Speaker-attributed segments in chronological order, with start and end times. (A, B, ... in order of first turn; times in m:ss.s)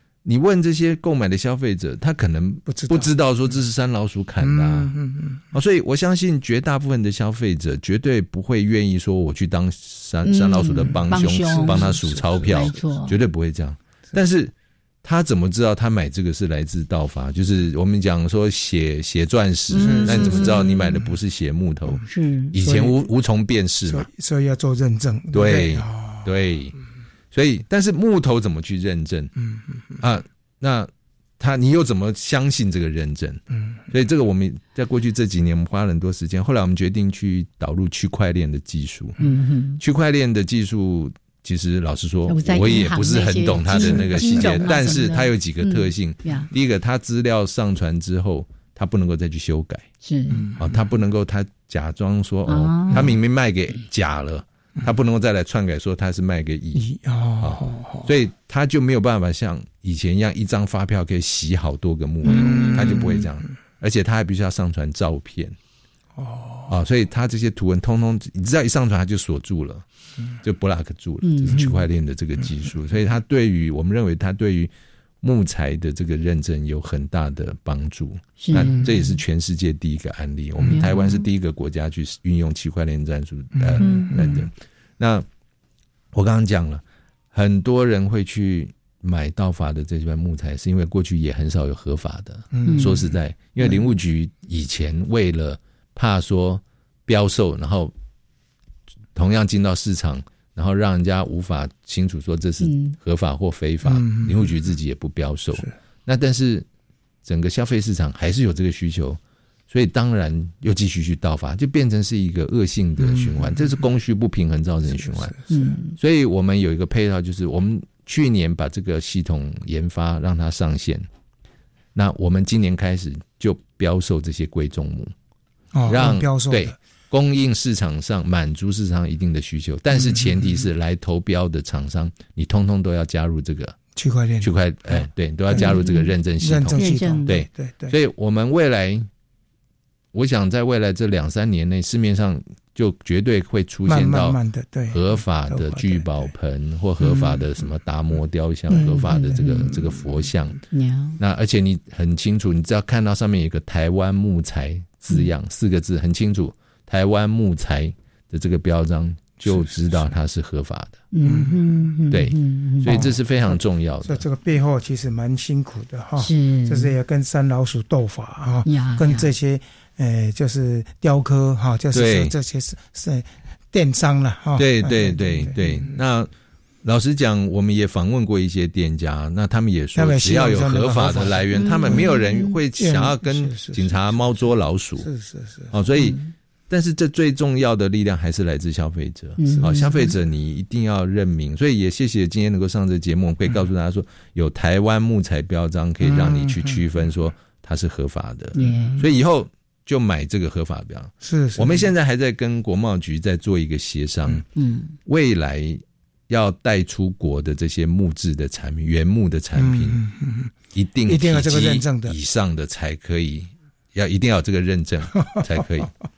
0:00.2-0:05.0 A
0:02.7-0:03.1 B
0:04.4-0:05.4 B
0:05.5-0:14.5 A
0:10.2-0:13.2 C
0:10.8-0:12.9 B
0:15.0-0:24.1 A
0:19.7-0:20.9 C
0:19.7-0:21.1 B
0:22.1-0:22.5 C
0:22.6-0:23.1 B
0:23.9-0:26.3 B
0:25.3-0:26.8 A
0:27.3-0:29.3 A
0:30.0-0:39.2 A
0:33.5-0:33.8 B
0:39.2-0:39.8 C
0:39.8-0:49.9 A
0:42.3-0:46.5 C
0:43.8-0:44.7 B
0:50.0-0:50.5 C
0:50.3-0:50.8 B
0:50.6-1:05.6 A
0:52.5-0:53.2 C
0:56.7-0:58.1 B
1:02.2-1:03.4 B
1:02.3-1:02.8 C
1:06.2-1:06.7 B
1:06.7-1:09.8 A
1:10.4-1:14.7 A
1:11.2-1:11.8 C
1:15.2-1:25.3 A
1:18.4-1:19.2 C
1:20.7-1:21.2 C
1:23.6-1:24.4 B
1:23.8-1:24.4 C
1:26.1-1:37.9 A
1:32.5-1:33.0 B
1:32.7-1:33.0 C
1:39.2-1:46.7 A
1:42.6-1:43.0 C
1:43.8-1:44.5 B
1:47.2-1:49.2 A
1:49.7-1:55.4 A
1:53.0-1:53.9 B
1:54.9-1:55.7 B
1:55.5-1:56.0 C
1:56.0-2:01.1 A
2:02.0-2:05.1 A
2:05.7-2:06.8 B
2:05.9-2:13.8 A
2:09.9-2:10.7 B
2:14.0-2:17.9 B
2:14.4-2:19.1 A
2:15.6-2:16.1 C
2:16.8-2:17.3 C
2:20.1-2:24.4 A
2:23.9-2:26.3 B
2:24.9-2:30.6 A
2:27.0-2:27.3 B
2:28.7-2:30.0 B
2:29.1-2:29.7 C
2:30.7-2:31.2 C
2:31.2-2:41.0 A
2:39.4-2:40.1 B
2:41.1-2:43.1 C
2:41.2-2:42.0 B
2:42.1-2:44.2 A
2:42.9-2:56.0 B
2:46.2-2:46.9 C
2:48.7-2:49.3 C
2:51.9-2:52.3 A
2:54.6-2:56.3 A
2:56.8-3:05.1 A
3:00.0-3:02.2 B
3:01.5-3:02.6 C
3:02.7-3:04.4 B
3:05.0-3:05.7 B
3:05.7-3:06.2 A
3:06.0-3:06.3 C
3:06.7-3:24.4 A
3:09.4-3:10.1 C
3:09.6-3:10.0 B
3:16.0-3:16.8 B
3:18.6-3:19.1 C
3:21.2-3:21.9 B
3:24.6-3:25.0 C
3:25.1-3:30.0 A
3:29.5-3:30.5 B
3:30.7-3:35.9 A
3:31.1-3:32.2 B